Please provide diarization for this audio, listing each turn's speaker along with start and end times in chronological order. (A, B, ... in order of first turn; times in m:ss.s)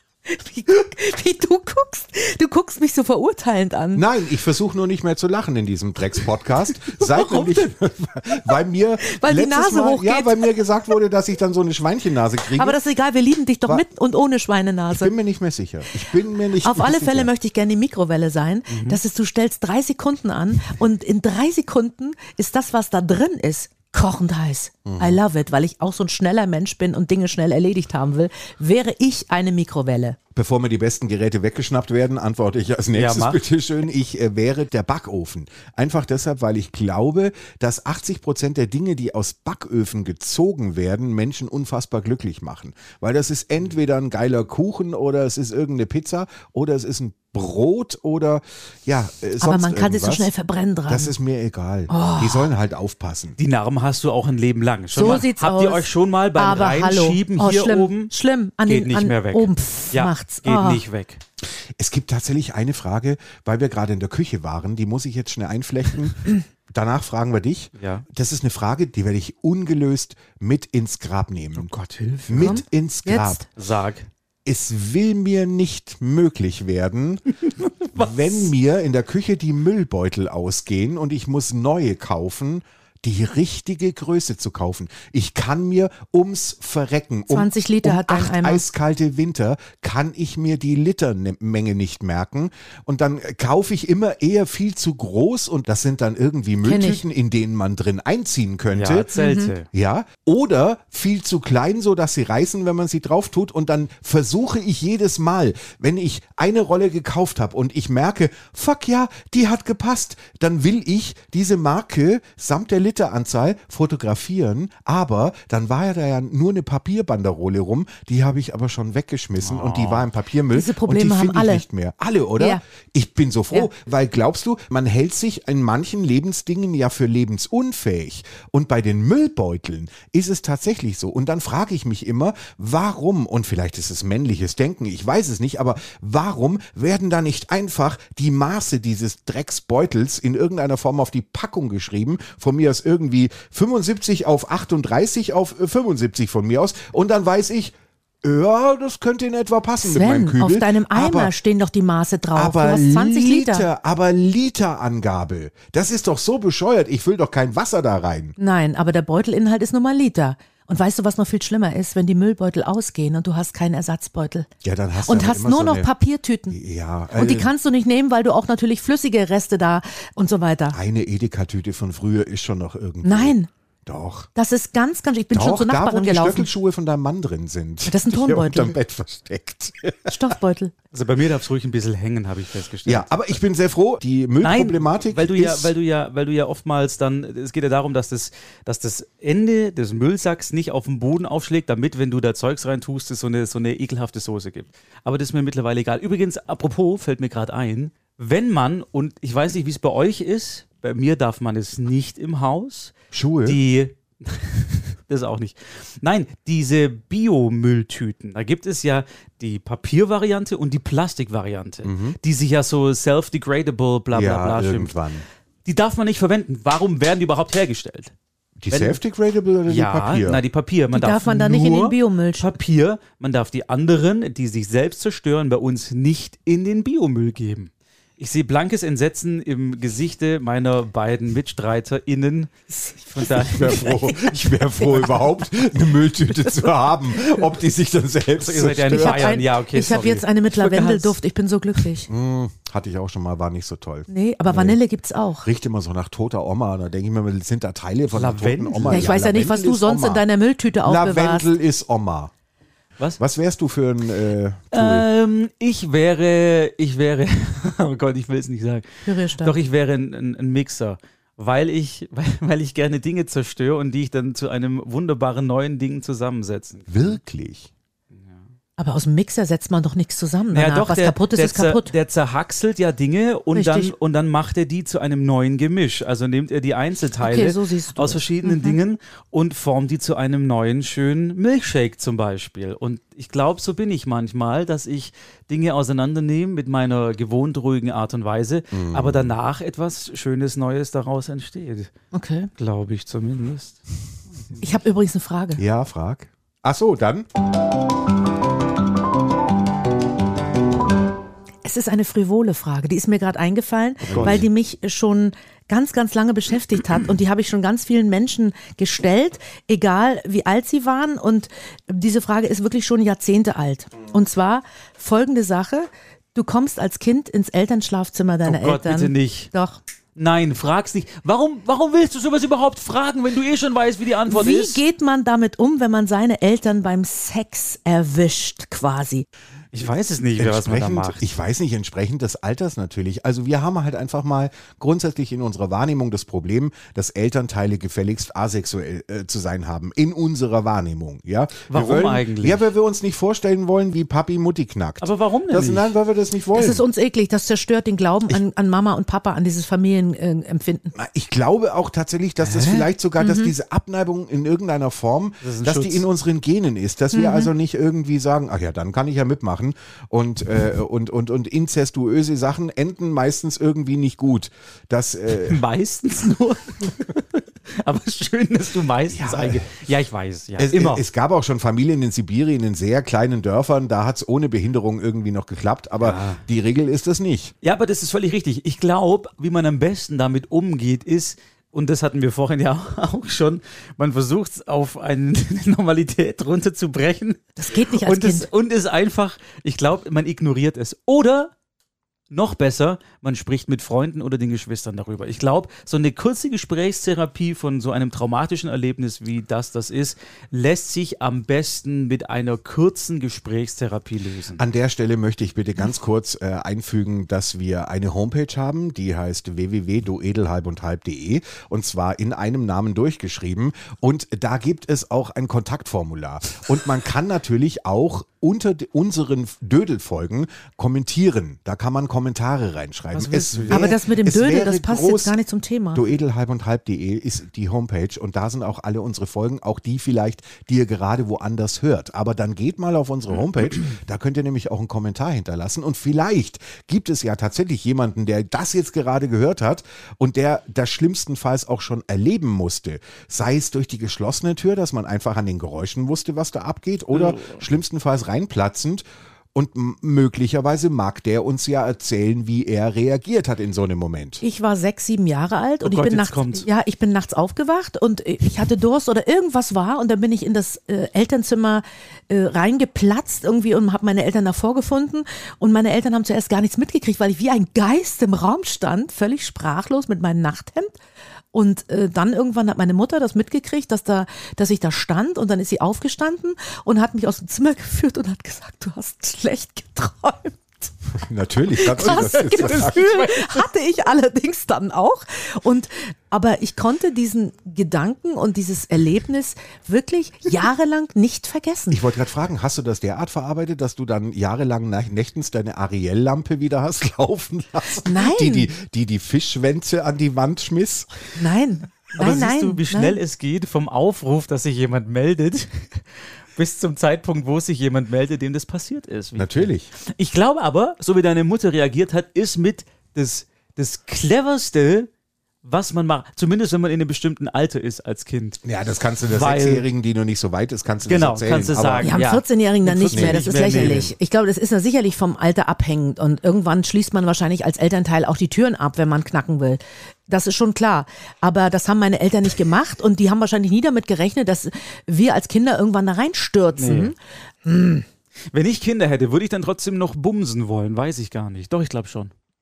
0:00.2-0:04.0 A
0:03.9-0:12.8 B
0:07.0-0:07.6 A
0:09.1-0:10.4 A
0:12.6-0:15.1 A
0:14.9-0:17.3 B
0:16.6-0:30.2 A
0:18.7-0:19.0 C
0:24.8-0:25.2 B
0:30.3-0:50.3 B
0:32.9-0:33.4 C
0:49.4-0:51.1 A
0:50.9-0:53.4 B
0:51.9-0:52.5 A
0:53.4-0:58.1 C
0:54.9-1:00.8 A
0:58.7-1:01.2 C
1:01.8-1:11.7 B
1:07.8-1:08.0 C
1:11.5-1:12.6 C
1:12.3-1:13.4 B
1:12.4-1:13.4 A
1:13.6-1:14.1 C
1:14.4-1:17.3 B
1:17.8-1:18.4 C
1:17.9-1:39.1 B
1:27.3-1:28.6 A
1:36.6-1:37.0 A
1:38.7-1:39.7 C
1:39.2-1:39.5 A
1:39.7-2:31.3 B
1:59.4-2:00.1 C
2:00.5-2:01.6 A
2:29.8-2:33.7 A
2:32.3-2:38.3 B
2:38.4-2:44.5 A
2:44.6-2:45.9 B
2:45.0-2:46.6 A
2:46.5-2:47.5 B
2:47.1-2:50.8 A
2:50.7-2:54.3 B
2:53.0-2:53.5 A
2:54.3-2:56.5 A
2:55.3-3:00.3 B
2:57.9-2:58.7 A
3:00.0-3:00.7 A
3:00.9-3:03.2 C
3:02.8-3:05.7 B
3:04.4-3:22.9 C
3:23.1-3:23.6 B
3:23.4-3:34.9 C
3:31.8-3:32.2 B
3:34.1-3:35.2 B
3:35.6-3:38.1 C
3:38.6-3:40.4 B
3:38.7-3:39.0 C
3:39.7-3:52.5 C
3:40.9-3:42.5 A
3:53.1-3:54.4 C
3:53.2-3:59.3 B
3:58.4-4:01.2 C
3:58.9-4:02.1 A
4:02.1-4:04.8 B
4:04.1-4:05.5 A
4:05.4-4:10.2 B
4:08.1-4:09.1 C
4:08.9-4:11.5 A
4:10.8-4:12.3 B
4:13.2-4:15.1 B
4:14.7-4:27.2 C
4:19.0-4:19.6 A
4:26.9-4:27.7 B
4:28.1-4:28.4 C
4:28.8-4:31.9 A
4:30.5-4:51.9 C
4:33.5-4:33.9 A
4:37.2-4:38.8 A
4:48.7-4:49.3 B
4:52.1-4:52.5 A
4:52.6-4:53.8 C
4:54.6-4:55.6 A
4:55.6-4:57.2 B
5:01.6-5:19.8 A
5:04.0-5:04.5 B
5:04.1-5:04.4 C
5:18.4-5:19.5 C
5:20.2-5:24.8 C
5:24.3-5:29.2 A
5:29.7-5:31.2 C
5:30.4-5:46.8 B
5:41.7-5:42.6 C
5:45.0-5:45.9 C
5:46.5-5:50.9 A
5:50.9-6:05.6 B
5:52.4-5:52.9 C
5:53.2-5:53.5 A
5:55.4-5:56.0 C
5:57.1-5:57.5 A
6:05.4-6:11.0 C
6:09.1-6:09.7 B
6:10.6-6:17.5 B
6:16.0-6:16.4 C
6:17.6-6:31.5 C
6:27.6-6:28.5 A
6:32.3-6:44.6 C
6:44.6-7:05.3 B
7:03.1-7:03.9 C
7:03.7-7:06.0 A
7:05.9-7:34.4 B
7:27.1-7:27.6 C
7:34.4-7:51.0 A
7:35.8-7:36.6 C
7:51.5-8:00.9 A
8:01.1-8:03.3 B
8:01.7-8:12.0 A
8:11.9-8:21.1 B
8:18.0-8:18.7 A
8:21.4-8:23.2 A
8:22.2-8:26.0 C
8:26.6-8:35.1 C
8:29.4-8:29.9 B
8:35.6-8:38.6 C
8:38.6-8:42.2 B
8:39.3-8:39.9 C
8:41.0-8:44.1 C
8:42.0-8:58.0 A
8:43.1-8:44.1 B
8:56.8-8:57.1 C
8:58.5-9:02.3 C